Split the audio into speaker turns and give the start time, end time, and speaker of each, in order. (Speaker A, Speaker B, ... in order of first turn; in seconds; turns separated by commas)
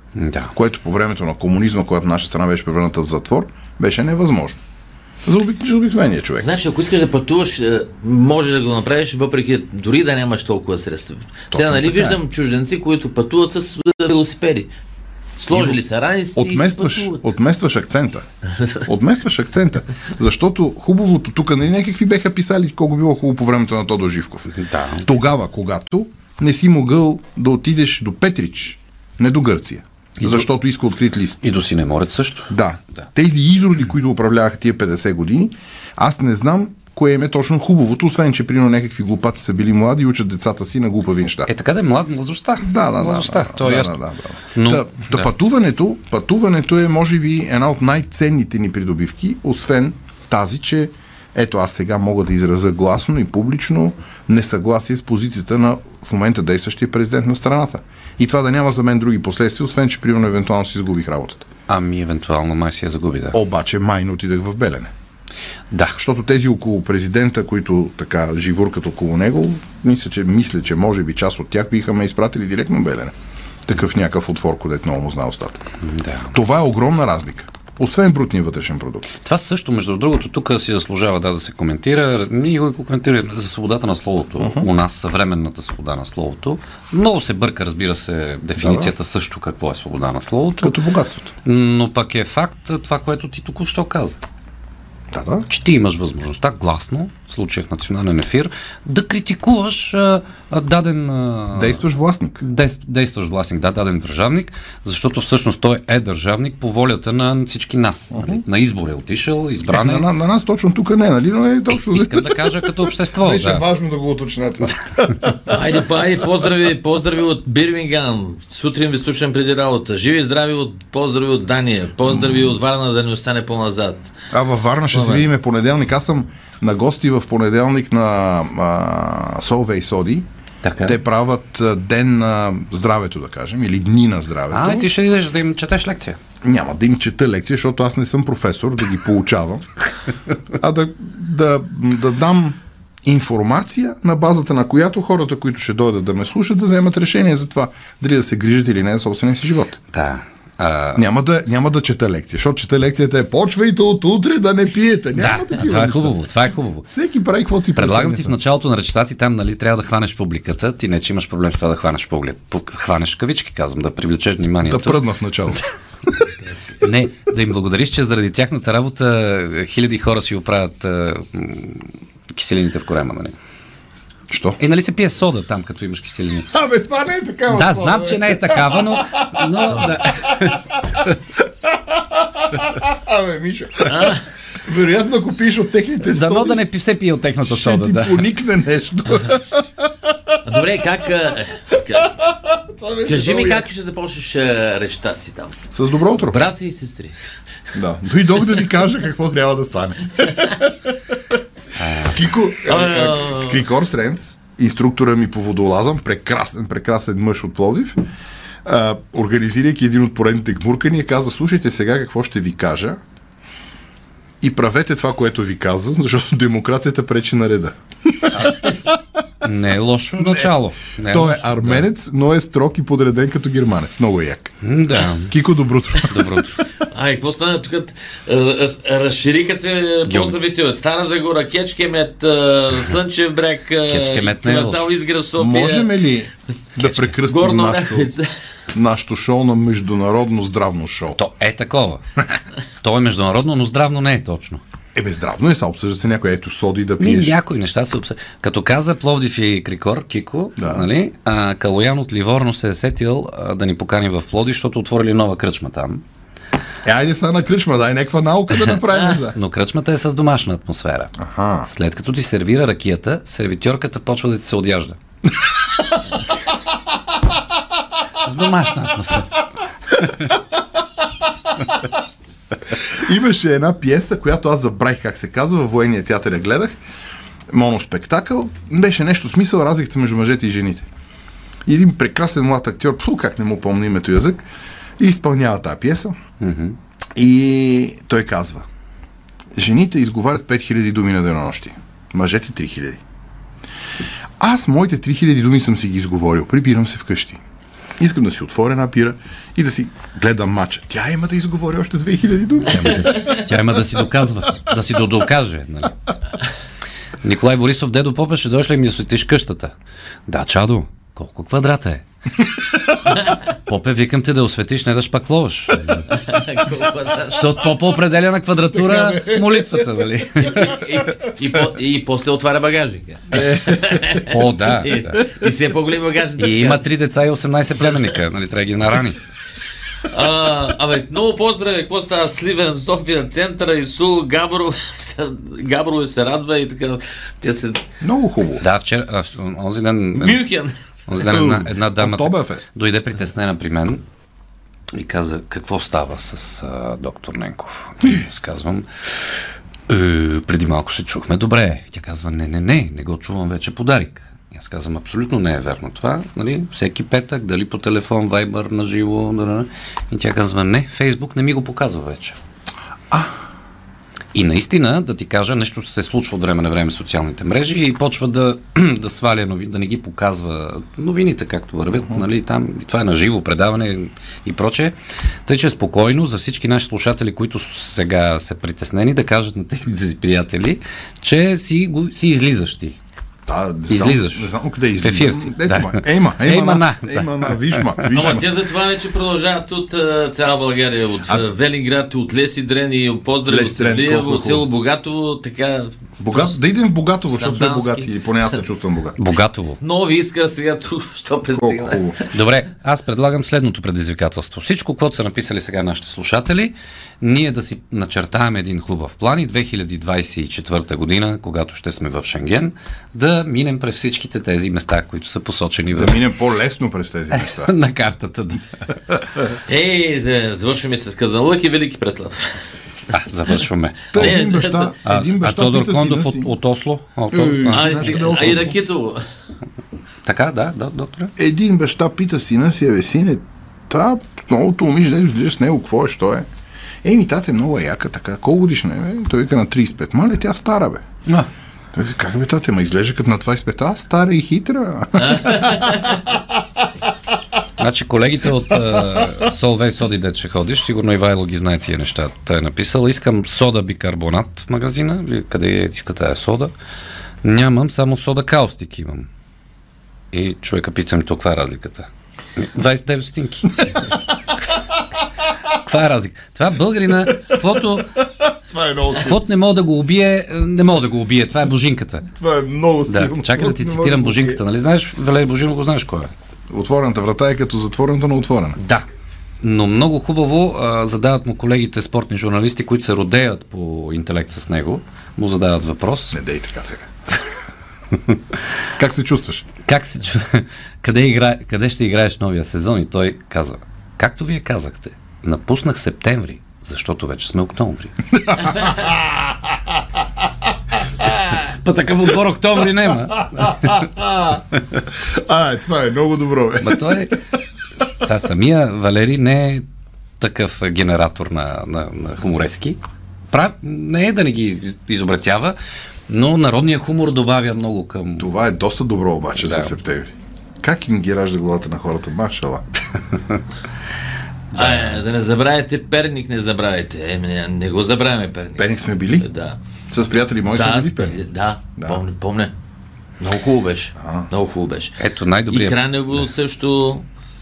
Speaker A: 0.1-0.5, Speaker B: 0.5-4.6, Speaker B: 5.2-6.5, Speaker C: 6.4-14.7, Speaker B: 11.5-12.2, Speaker C: 15.4-17.3, Speaker B: 15.5-15.8, Speaker B: 16.3-18.2, Speaker B: 18.8-31.4, Speaker A: 24.5-25.1, Speaker A: 30.2-30.5, Speaker A: 31.4-32.5, Speaker B: 32.5-41.5, Speaker A: 41.5-44.0, Speaker B: 42.6-61.5, Speaker A: 44.5-45.3, Speaker A: 61.7-63.4, Speaker B: 63.3-64.9, Speaker A: 65.7-66.0, Speaker B: 66.0-73.1, Speaker B: 73.7-75.6, Speaker A: 75.8-76.3, Speaker B: 76.3-79.1, Speaker A: 79.2-90.8, Speaker B: 84.4-84.7, Speaker B: 88.6-88.9, Speaker B: 90.6-91.3, Speaker A: 91.4-94.2, Speaker B: 95.1-95.5, Speaker A: 95.5-101.8, Speaker B: 101.5-102.4, Speaker A: 102.4-110.1, Speaker B: 108.1-108.4, Speaker B: 109.7-115.5, Speaker A: 111.7-113.7, Speaker C: 115.5-124.1, Speaker B: 122.0-122.5, Speaker B: 124.3-130.2, Speaker C: 124.9-125.2, Speaker A: 130.6-131.0, Speaker B: 130.8-134.9, Speaker A: 134.5-136.2, Speaker B: 136.4-139.7, Speaker B: 140.5-149.8, Speaker A: 149.9-151.0, Speaker B: 150.9-156.2, Speaker A: 155.1-156.9, Speaker B: 156.9-158.3, Speaker A: 157.8-165.0, Speaker B: 164.6-165.6, Speaker A: 166.8-173.3, Speaker B: 174.3-174.6, Speaker A: 174.6-176.5, Speaker B: 176.5-180.7, Speaker A: 177.5-181.1, Speaker C: 179.7-180.0, Speaker B: 181.7-186.6, Speaker C: 183.9-184.2, Speaker A: 186.0-188.3, Speaker B: 187.4-190.3, Speaker C: 190.4-192.1, Speaker B: 192.1-193.6, Speaker C: 193.0-195.6, Speaker B: 195.7-196.4, Speaker C: 196.2-197.2, Speaker B: 197.7-200.9, Speaker A: 201.8-202.2, Speaker B: 202.0-208.0, Speaker C: 202.7-203.6, Speaker B: 208.6-213.0, Speaker B: 214.4-218.8, Speaker A: 219.4-221.9, Speaker B: 220.2-220.5, Speaker B: 221.0-224.5, Speaker A: 224.6-225.3, Speaker B: 225.3-226.4, Speaker A: 226.0-226.6, Speaker C: 226.9-235.9, Speaker A: 230.1-230.3, Speaker A: 233.9-234.9, Speaker B: 235.4-238.1, Speaker C: 236.8-238.3, Speaker B: 238.7-241.2, Speaker A: 241.2-242.0, Speaker A: 242.8-244.6, Speaker B: 244.9-247.3, Speaker A: 247.0-256.0, Speaker B: 250.6-250.9, Speaker B: 256.8-259.4, Speaker A: 259.3-265.0, Speaker B: 261.2-261.7, Speaker A: 268.2-269.4, Speaker B: 272.7-276.7, Speaker B: 277.5-280.9, Speaker B: 281.6-284.4, Speaker B: 285.0-286.1, Speaker A: 286.4-286.8, Speaker B: 287.1-288.6, Speaker B: 289.5-293.0, Speaker B: 294.4-297.4, Speaker B: 298.0-303.1, Speaker A: 302.7-306.1, Speaker A: 307.2-309.7, Speaker A: 310.3-312.0, Speaker A: 313.3-316.1, Speaker C: 316.1-317.7, Speaker A: 317.3-320.8, Speaker B: 318.7-319.9, Speaker C: 320.4-326.8, Speaker A: 324.2-325.2, Speaker A: 326.4-329.2, Speaker C: 330.1-337.8, Speaker B: 338.0-338.6, Speaker A: 338.6-340.4, Speaker C: 340.1-340.7, Speaker A: 341.1-344.0, Speaker B: 341.1-342.7, Speaker A: 344.9-348.9, Speaker A: 349.9-362.4, Speaker A: 364.3-383.0, Speaker B: 383.4-388.5, Speaker A: 383.9-388.2, Speaker C: 388.1-396.6, Speaker B: 393.5-394.6, Speaker B: 396.2-399.2, Speaker C: 397.3-398.2, Speaker A: 399.1-399.8, Speaker C: 399.8-402.3, Speaker B: 401.5-402.2, Speaker A: 402.3-416.2, Speaker B: 415.9-417.7, Speaker A: 417.3-418.6, Speaker C: 419.7-422.6, Speaker A: 423.1-424.4, Speaker B: 424.1-426.5, Speaker C: 424.1-424.9, Speaker A: 425.1-428.6, Speaker B: 427.3-428.8, Speaker C: 427.7-429.2, Speaker A: 430.2-431.3, Speaker B: 431.4-436.4, Speaker B: 437.0-441.0, Speaker B: 441.9-446.3, Speaker C: 445.2-446.1, Speaker A: 447.8-456.7, Speaker A: 457.4-459.3, Speaker A: 460.3-464.0, Speaker A: 465.7-468.2, Speaker B: 468.7-469.4, Speaker A: 469.1-472.3, Speaker B: 472.3-474.6, Speaker A: 473.1-476.3, Speaker B: 476.7-478.8, Speaker A: 478.8-479.1, Speaker A: 479.6-486.4, Speaker B: 486.3-487.1, Speaker B: 488.9-489.7, Speaker A: 489.8-498.1, Speaker B: 498.3-500.0, Speaker B: 501.2-501.6, Speaker A: 501.5-504.0, Speaker B: 503.1-507.4, Speaker A: 506.8-507.4, Speaker A: 508.1-509.8, Speaker A: 510.4-513.0, Speaker A: 513.5-515.8, Speaker A: 516.3-518.5, Speaker B: 518.4-522.8, Speaker A: 519.5-520.0, Speaker C: 524.7-529.8, Speaker A: 524.7-525.2, Speaker B: 528.8-529.5, Speaker B: 530.1-531.4, Speaker C: 530.7-532.7, Speaker C: 533.4-535.1, Speaker B: 534.2-534.5, Speaker A: 535.2-536.5, Speaker C: 535.7-537.2